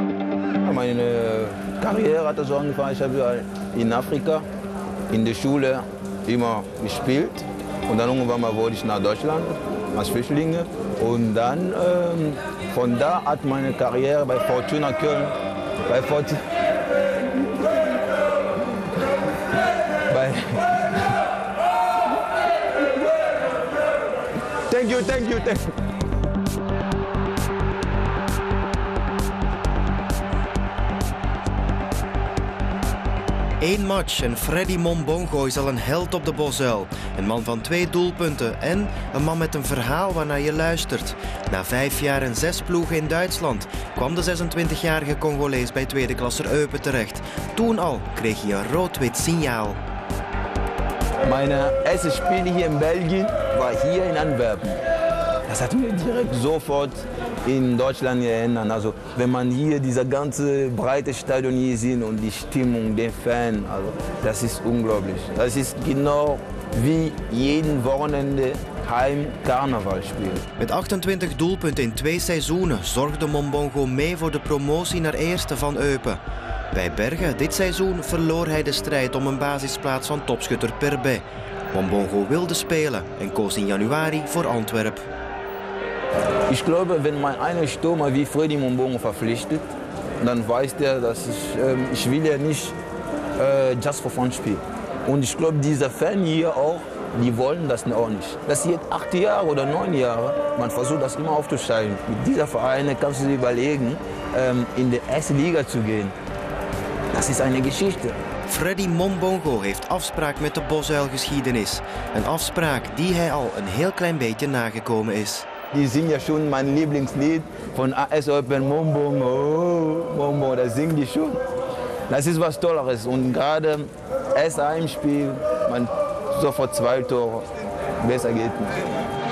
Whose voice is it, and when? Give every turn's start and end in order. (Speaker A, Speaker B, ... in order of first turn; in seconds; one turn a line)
Speaker A: 0.6-4.4
Speaker A: 5.1-15.3
Speaker A: 15.9-16.5
Speaker A: 20.1-21.2
Speaker A: 24.7-25.7
Speaker B: 33.6-49.8
Speaker A: 51.2-54.8
Speaker A: 55.5-70.5
Speaker B: 70.6-76.2
Speaker B: 76.7-85.0
Speaker A: 86.5-89.7
Speaker A: 90.2-92.8
Speaker A: 93.4-106.1
Speaker A: 107.1-108.2
Speaker B: 108.5-115.5
Speaker A: 115.7-121.4
Speaker A: 122.1-127.5
Speaker A: 128.0-128.9